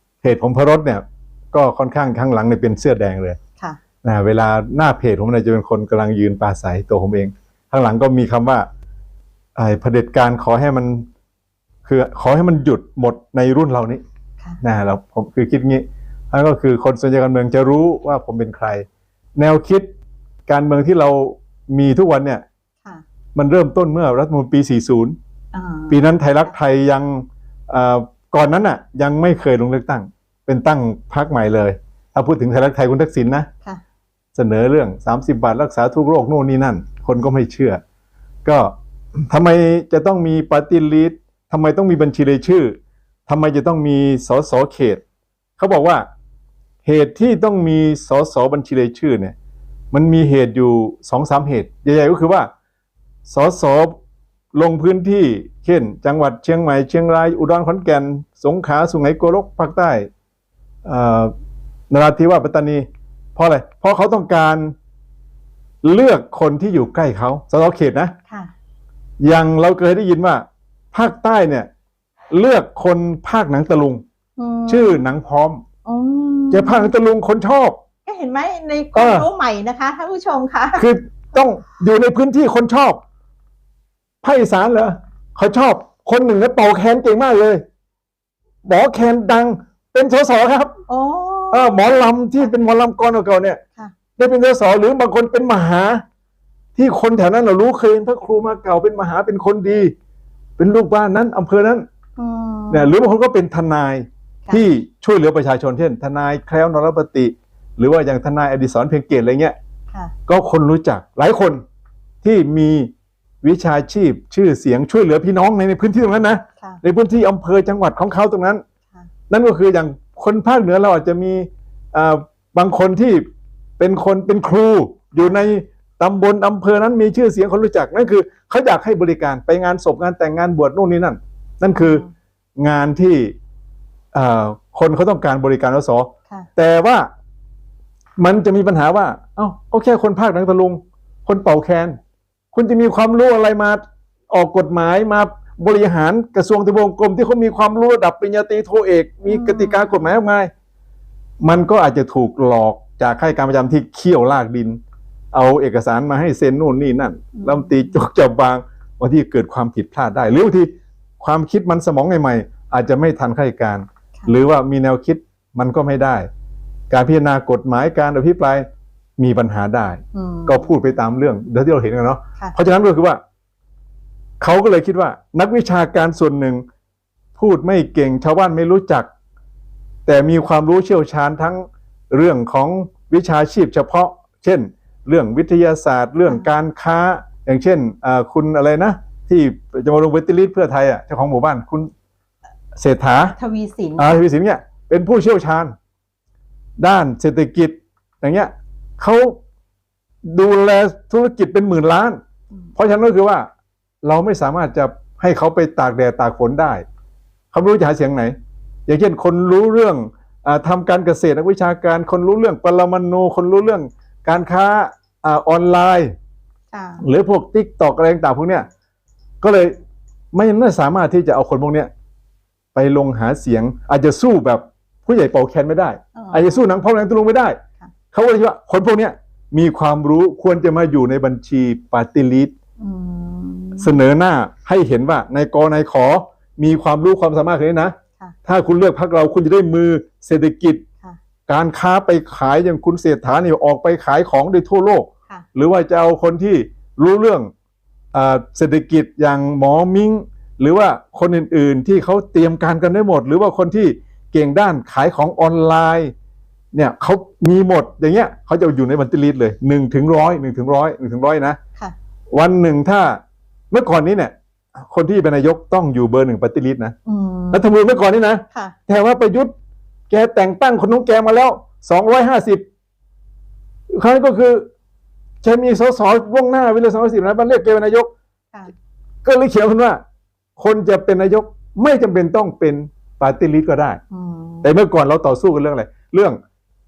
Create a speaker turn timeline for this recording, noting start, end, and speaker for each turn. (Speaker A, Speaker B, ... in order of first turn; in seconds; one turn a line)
Speaker A: 0.2-3.4
Speaker A: 4.0-8.7
Speaker A: 9.6-11.1
Speaker A: 11.8-14.0
Speaker A: 14.6-19.9
Speaker A: 20.5-22.4
Speaker A: 23.3-25.1
Speaker B: 25.5-26.5
Speaker A: 25.9-33.5
Speaker A: 34.3-37.8
Speaker A: 38.4-42.8
Speaker A: 43.3-45.0
Speaker A: 45.6-46.0
Speaker A: 46.8-49.3
Speaker A: 49.9-52.5
Speaker A: 53.3-53.9
Speaker A: 54.5-60.1
Speaker A: 60.8-61.3
Speaker A: 61.9-64.7
Speaker A: 65.8-68.1
Speaker A: 69.2-71.7
Speaker A: 72.3-74.0
Speaker B: 74.4-75.0
Speaker A: 74.7-75.6
Speaker B: 75.8-76.9
Speaker A: 76.5-77.8
Speaker B: 78.0-80.8
Speaker A: 78.9-79.3
Speaker A: 80.8-83.0
Speaker A: 84.2-87.6
Speaker A: 88.6-90.8
Speaker B: 90.9-92.0
Speaker A: 91.5-93.6
Speaker A: 94.2-96.0
Speaker A: 96.8-99.9
Speaker A: 100.6-101.8
Speaker B: 102.2-102.9
Speaker A: 102.7-109.5
Speaker A: 110.3-111.6
Speaker A: 112.2-112.9
Speaker A: 113.4-118.6
Speaker A: 119.3-123.2
Speaker A: 123.8-132.0
Speaker B: 131.7-132.1
Speaker A: 132.6-133.3
Speaker A: 134.1-137.1
Speaker A: 138.2-142.0
Speaker A: 142.5-150.5
Speaker B: 149.2-150.0
Speaker A: 151.4-154.8
Speaker A: 155.3-166.3
Speaker B: 157.3-158.0
Speaker A: 166.9-168.7
Speaker A: 169.2-173.2
Speaker B: 170.1-170.7
Speaker A: 174.4-176.6
Speaker A: 177.4-179.1
Speaker A: 180.1-191.9
Speaker A: 192.7-193.3
Speaker B: 193.3-194.2
Speaker A: 194.0-195.7
Speaker A: 196.8-199.4
Speaker A: 200.3-202.2
Speaker A: 202.8-203.5
Speaker A: 204.0-206.8
Speaker A: 207.5-208.3
Speaker A: 208.9-216.1
Speaker B: 216.7-217.1
Speaker A: 217.0-218.7
Speaker A: 219.4-219.7
Speaker A: 220.3-221.9
Speaker A: 222.7-227.6
Speaker B: 226.2-226.7
Speaker A: 228.1-232.5
Speaker B: 232.8-233.9
Speaker A: 233.8-240.8
Speaker A: 241.5-247.5
Speaker A: 248.1-256.1
Speaker A: 256.7-261.6
Speaker A: 262.3-263.2
Speaker A: 263.7-266.9
Speaker B: 267.1-267.6
Speaker A: 267.5-269.5
Speaker A: 270.1-272.6
Speaker A: 273.9-274.7
Speaker A: 275.4-278.1
Speaker A: 279.2-280.0
Speaker A: 280.6-284.0
Speaker B: 284.1-284.7
Speaker A: 284.6-286.4